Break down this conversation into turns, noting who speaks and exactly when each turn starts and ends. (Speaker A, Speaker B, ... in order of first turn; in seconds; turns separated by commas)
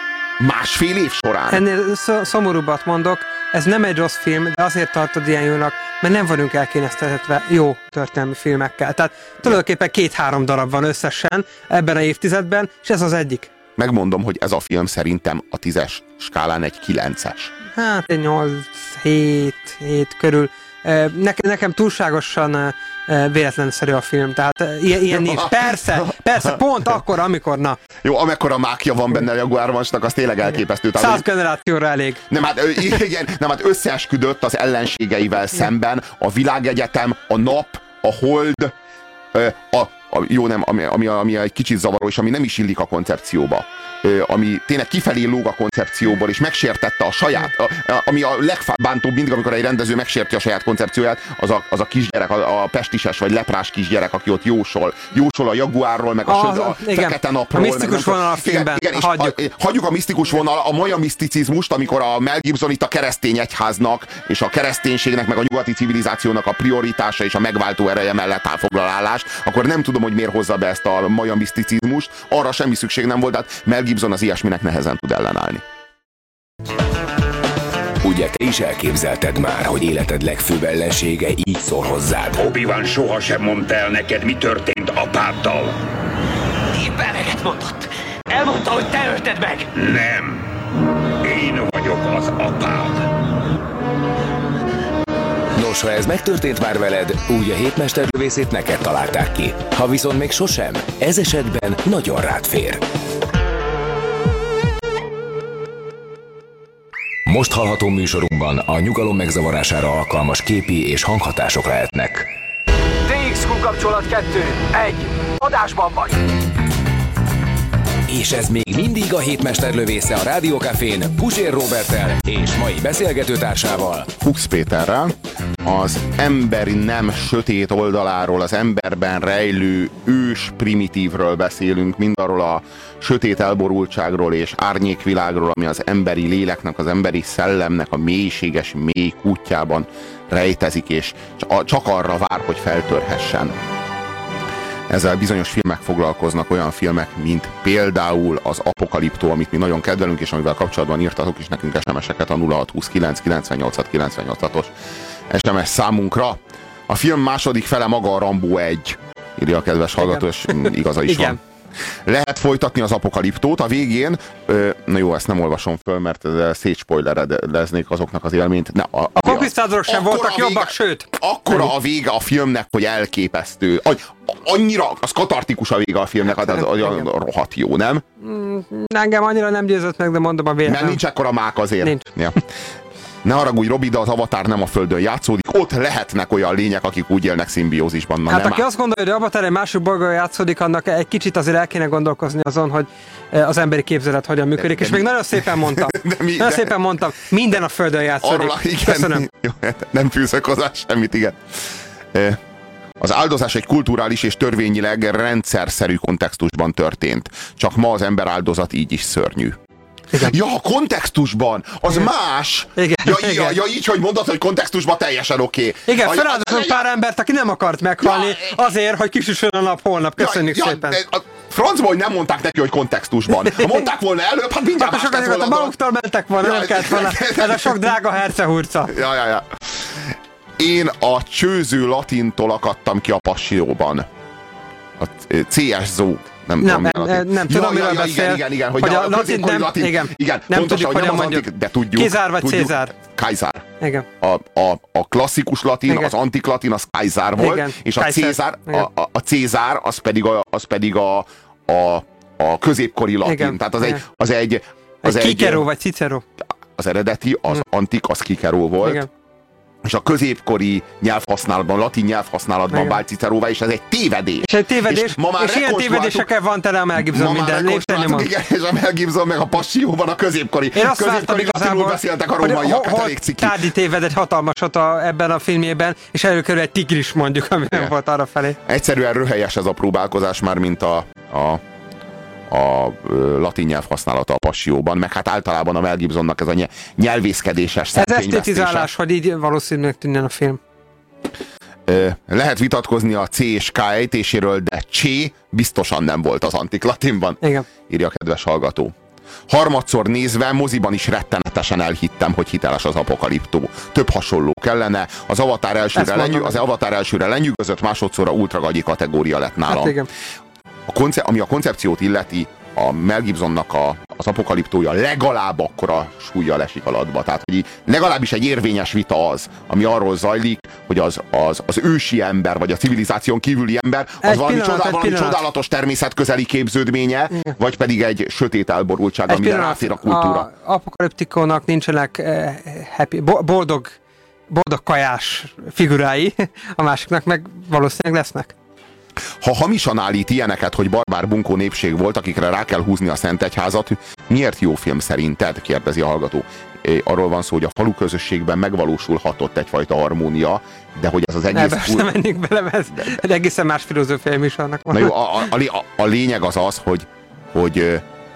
Speaker A: 0.4-1.6, Speaker B: 1.5-13.5, Speaker A: 13.8-17.5, Speaker B: 17.7-27.8, Speaker A: 24.9-26.6, Speaker A: 28.0-31.2, Speaker B: 31.0-32.2, Speaker A: 32.3-38.7, Speaker A: 39.3-75.6, Speaker B: 56.3-59.4, Speaker C: 78.0-82.4, Speaker D: 82.4-85.8, Speaker D: 89.7-90.5, Speaker D: 91.2-93.0, Speaker C: 95.5-102.8, Speaker C: 107.3-112.3, Speaker E: 113.1-116.2, Speaker C: 118.1-124.1, Speaker A: 124.2-143.6, Speaker A: 144.9-154.7, Speaker A: 155.3-161.4, Speaker B: 160.0-161.4, Speaker A: 162.1-178.0, Speaker B: 169.2-171.7, Speaker B: 176.3-177.1, Speaker B: 178.2-181.0, Speaker A: 180.6-182.4, Speaker B: 181.8-182.1, Speaker A: 183.2-188.6, Speaker B: 188.3-199.2, Speaker A: 194.6-196.8, Speaker A: 198.2-202.4, Speaker A: 203.0-209.6, Speaker A: 210.2-216.9, Speaker B: 212.8-213.6, Speaker B: 215.9-221.0, Speaker A: 218.0-218.5, Speaker A: 220.2-225.7, Speaker B: 223.3-223.9, Speaker B: 224.8-229.0, Speaker A: 226.4-227.9, Speaker A: 228.9-234.1, Speaker A: 235.0-243.6, Speaker B: 236.6-242.9, Speaker B: 243.8-244.1, Speaker A: 244.2-255.6, Speaker B: 247.4-248.8, Speaker B: 253.2-254.0, Speaker B: 255.0-256.2, Speaker A: 256.8-259.1, Speaker B: 258.8-259.1, Speaker A: 259.8-266.3, Speaker B: 262.7-263.0, Speaker B: 264.4-268.3, Speaker A: 266.9-273.6, Speaker B: 270.7-278.6, Speaker A: 278.6-281.6, Speaker A: 282.5-288.9, Speaker B: 287.9-290.6, Speaker A: 291.9-298.9, Speaker A: 299.5-310.0, Speaker B: 305.9-306.6, Speaker B: 309.7-310.1, Speaker A: 310.9-330.5, Speaker B: 324.2-325.4, Speaker B: 329.3-333.9, Speaker B: 334.5-338.5, Speaker A: 339.4-352.1, Speaker B: 351.5-355.1, Speaker A: 354.9-358.0